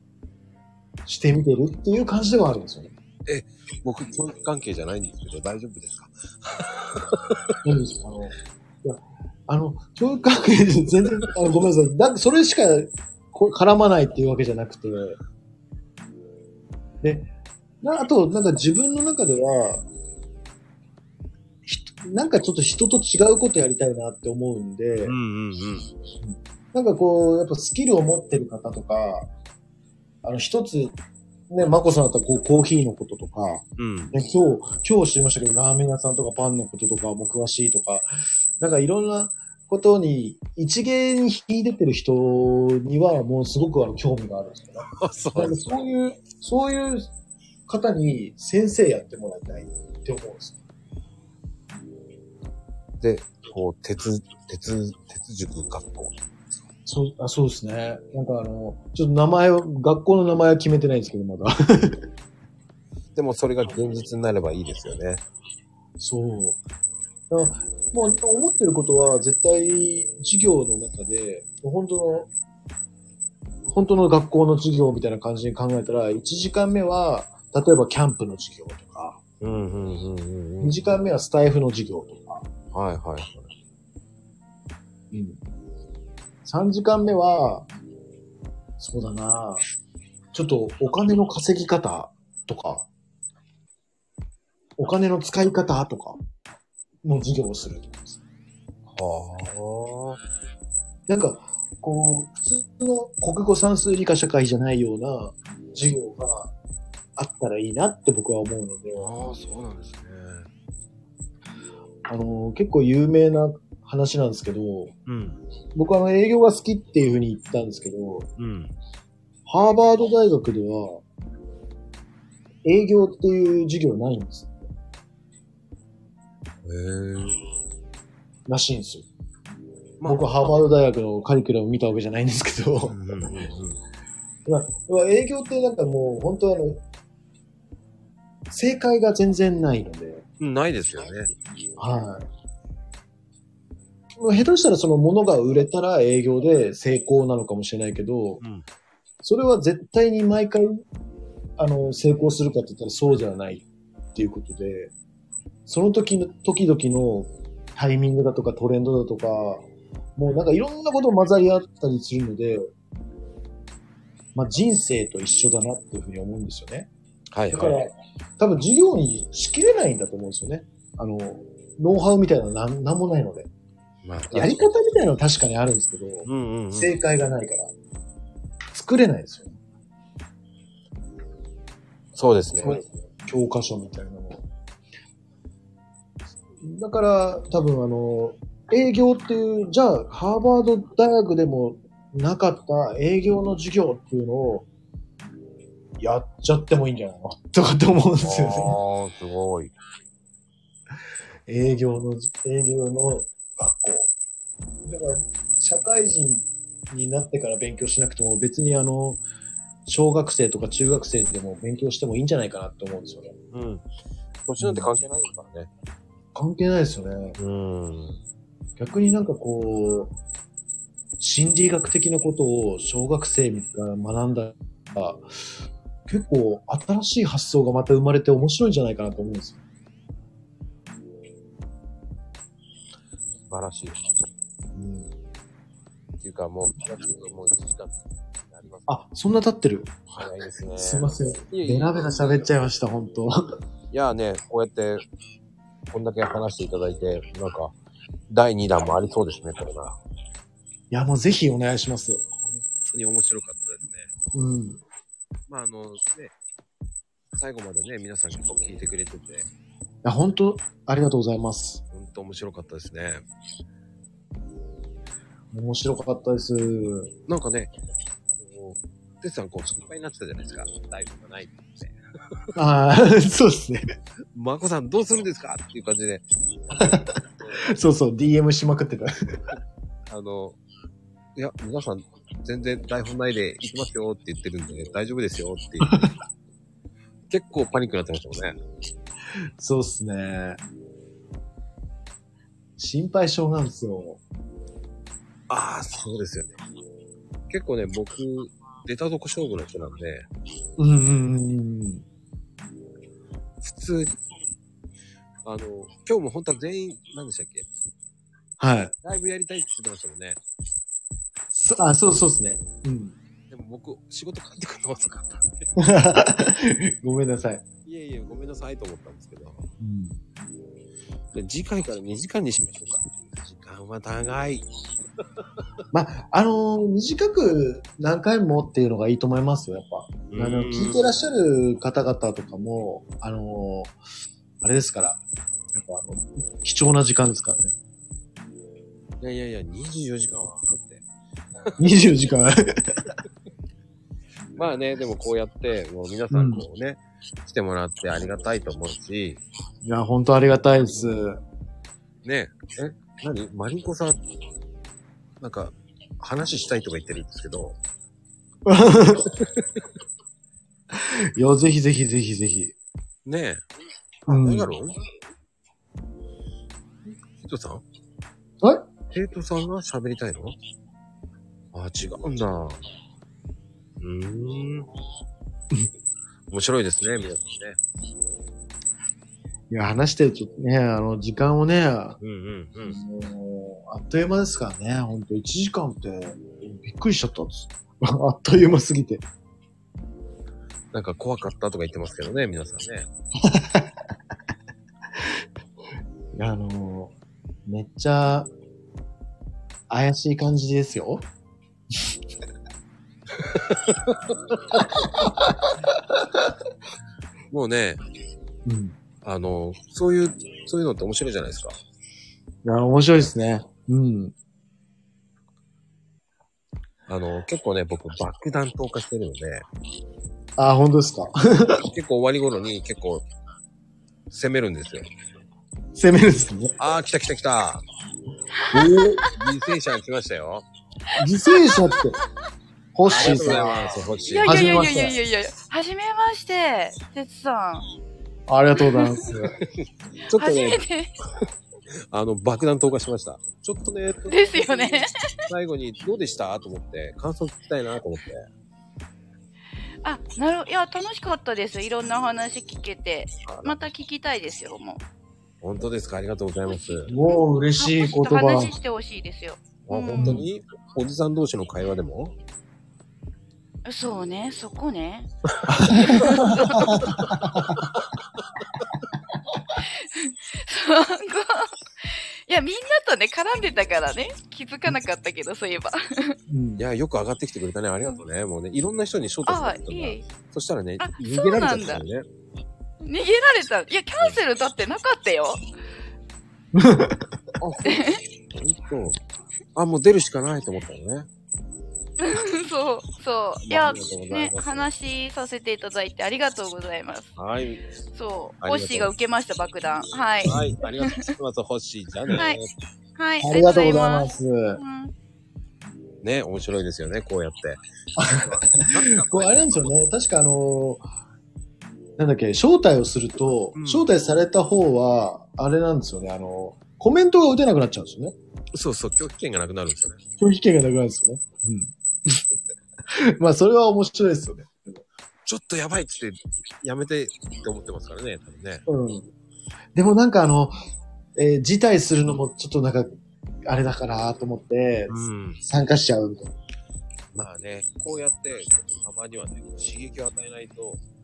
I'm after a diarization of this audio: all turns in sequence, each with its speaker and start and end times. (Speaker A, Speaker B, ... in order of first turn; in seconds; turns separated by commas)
Speaker A: 1.1-2.9, Speaker B: 3.3-7.3, Speaker A: 7.6-15.2, Speaker A: 17.0-17.3, Speaker A: 17.8-19.9, Speaker A: 21.6-25.1, Speaker B: 25.0-25.9, Speaker A: 26.2-29.3, Speaker A: 30.2-30.9, Speaker A: 31.5-38.1, Speaker B: 33.8-34.1, Speaker A: 38.6-47.1, Speaker B: 45.0-45.7, Speaker A: 47.7-50.6, Speaker B: 53.0-56.6, Speaker A: 56.9-62.1, Speaker B: 63.1-65.2, Speaker A: 66.0-66.6, Speaker A: 67.3-72.3, Speaker A: 73.7-79.2, Speaker B: 79.4-81.0, Speaker A: 80.6-82.4, Speaker B: 82.7-83.5, Speaker A: 85.1-85.4, Speaker A: 86.4-87.7, Speaker A: 88.8-89.6, Speaker A: 90.3-92.8, Speaker A: 94.8-96.2, Speaker A: 97.0-98.2, Speaker B: 98.9-100.2, Speaker A: 101.1-106.5, Speaker A: 107.2-109.1, Speaker B: 109.0-110.5, Speaker A: 112.1-114.9, Speaker B: 115.0-115.4, Speaker A: 115.7-118.3, Speaker B: 118.4-118.8, Speaker A: 119.5-121.0, Speaker A: 122.6-124.5, Speaker B: 126.6-127.4, Speaker A: 128.5-129.1, Speaker B: 130.0-130.3, Speaker A: 130.0-133.0, Speaker B: 132.9-133.8, Speaker A: 134.4-136.8, Speaker A: 138.5-140.2, Speaker B: 140.4-141.3, Speaker A: 141.8-142.2, Speaker A: 144.2-148.4, Speaker A: 149.2-150.8, Speaker A: 151.6-154.9, Speaker A: 155.7-162.7, Speaker A: 164.3-166.9, Speaker B: 167.3-167.8, Speaker A: 167.5-173.5, Speaker B: 174.0-174.7, Speaker A: 174.3-177.7, Speaker B: 176.2-176.9, Speaker A: 178.7-179.6, Speaker B: 182.1-182.8, Speaker A: 182.6-184.4, Speaker A: 186.6-194.7, Speaker A: 196.0-198.7, Speaker B: 198.2-199.8, Speaker A: 201.5-204.1, Speaker A: 204.8-209.2, Speaker A: 209.8-213.3, Speaker B: 213.5-213.8, Speaker B: 214.5-215.7, Speaker A: 214.6-214.9, Speaker A: 216.3-217.4, Speaker B: 217.4-218.2, Speaker A: 218.8-220.2, Speaker A: 221.2-225.3, Speaker A: 226.1-229.6, Speaker B: 233.5-234.0, Speaker A: 234.7-235.1, Speaker B: 236.2-239.0, Speaker A: 238.9-239.9, Speaker B: 240.1-242.2, Speaker A: 240.8-243.3, Speaker B: 243.9-245.0, Speaker B: 245.9-247.7, Speaker B: 248.3-250.0, Speaker A: 250.9-252.2, Speaker B: 252.4-254.1, Speaker A: 254.3-254.8, Speaker B: 255.5-256.3, Speaker B: 257.3-259.5, Speaker A: 260.0-261.8, Speaker B: 261.9-263.2, Speaker A: 265.5-267.1, Speaker B: 267.3-267.7, Speaker B: 268.3-272.0, Speaker A: 272.5-273.9, Speaker B: 274.3-277.7, Speaker A: 276.8-277.1, Speaker A: 277.7-279.4, Speaker B: 280.1-280.6, Speaker B: 281.4-286.0, Speaker B: 287.3-288.6, Speaker A: 289.6-290.6, Speaker A: 292.8-294.2, Speaker B: 295.5-296.6, Speaker B: 297.5-300.3, Speaker A: 300.8-302.0, Speaker B: 303.6-304.2, Speaker B: 305.4-307.7, Speaker A: 308.6-308.9, Speaker B: 309.0-310.4, Speaker A: 311.6-313.1, Speaker B: 313.5-315.7, Speaker A: 315.8-317.6, Speaker B: 317.8-319.7, Speaker A: 319.8-320.2, Speaker B: 321.3-324.7, Speaker A: 325.9-334.0, Speaker B: 330.3-331.1, Speaker A: 334.6-335.2, Speaker A: 335.7-337.7, Speaker B: 339.2-341.0, Speaker A: 341.8-343.1, Speaker B: 344.5-349.4, Speaker A: 346.3-346.6, Speaker A: 349.8-351.4, Speaker B: 352.2-354.2, Speaker B: 355.4-357.8, Speaker A: 358.6-359.4, Speaker A: 360.9-362.7, Speaker B: 363.2-363.6, Speaker A: 364.3-364.7, Speaker B: 364.3-365.0, Speaker B: 367.1-367.8, Speaker B: 369.1-370.6, Speaker B: 371.7-372.8, Speaker B: 374.0-374.9, Speaker B: 376.5-377.8, Speaker A: 379.7-382.2, Speaker B: 382.2-383.0, Speaker A: 382.8-389.2, Speaker B: 390.9-393.1, Speaker A: 393.4-393.9, Speaker A: 396.3-397.1, Speaker A: 397.6-398.5, Speaker A: 399.9-401.3, Speaker B: 403.4-404.6, Speaker A: 404.8-406.5, Speaker B: 407.5-408.0, Speaker A: 408.6-408.9, Speaker B: 409.2-411.8, Speaker A: 412.6-414.3, Speaker B: 417.1-419.6, Speaker A: 420.6-421.8, Speaker B: 421.8-423.2, Speaker B: 424.3-425.1, Speaker A: 425.9-426.8, Speaker B: 426.8-427.8, Speaker C: 428.6-429.3, Speaker A: 428.7-429.2, Speaker B: 429.3-430.6, Speaker A: 431.2-432.2, Speaker C: 431.4-431.8, Speaker A: 432.9-435.2, Speaker B: 433.1-435.0, Speaker C: 433.1-433.8, Speaker C: 434.3-437.9, Speaker A: 438.5-439.5, Speaker C: 438.7-439.2, Speaker B: 439.8-440.8, Speaker C: 440.4-441.1, Speaker B: 442.1-448.5, Speaker C: 444.3-445.1, Speaker C: 450.0-455.0, Speaker B: 453.4-453.8, Speaker B: 455.6-457.1, Speaker A: 457.1-458.7, Speaker C: 457.8-460.4, Speaker B: 459.9-462.3, Speaker A: 460.1-460.5, Speaker C: 463.8-465.3, Speaker B: 465.6-468.2, Speaker A: 465.7-467.9, Speaker C: 465.9-467.1, Speaker C: 469.8-476.4, Speaker A: 476.5-476.8, Speaker B: 476.8-482.2, Speaker C: 479.5-480.2, Speaker C: 481.0-482.0, Speaker C: 483.0-485.6, Speaker A: 486.7-487.4, Speaker B: 487.6-489.2, Speaker C: 487.8-488.2, Speaker B: 489.7-491.3, Speaker C: 492.2-497.3, Speaker B: 493.6-494.9, Speaker B: 497.4-497.9, Speaker C: 498.1-501.3, Speaker B: 498.6-499.1, Speaker B: 500.4-502.7, Speaker A: 500.5-500.8, Speaker C: 503.2-505.1, Speaker A: 503.4-504.8, Speaker B: 506.2-510.1, Speaker A: 508.1-508.5, Speaker A: 509.2-511.0, Speaker A: 512.2-518.3, Speaker B: 513.7-514.1, Speaker B: 518.7-520.2, Speaker A: 520.4-522.4, Speaker A: 523.1-525.0, Speaker B: 525.4-528.8, Speaker A: 528.9-529.3, Speaker A: 529.9-530.8, Speaker A: 531.3-536.5, Speaker B: 535.1-535.6, Speaker B: 537.3-541.0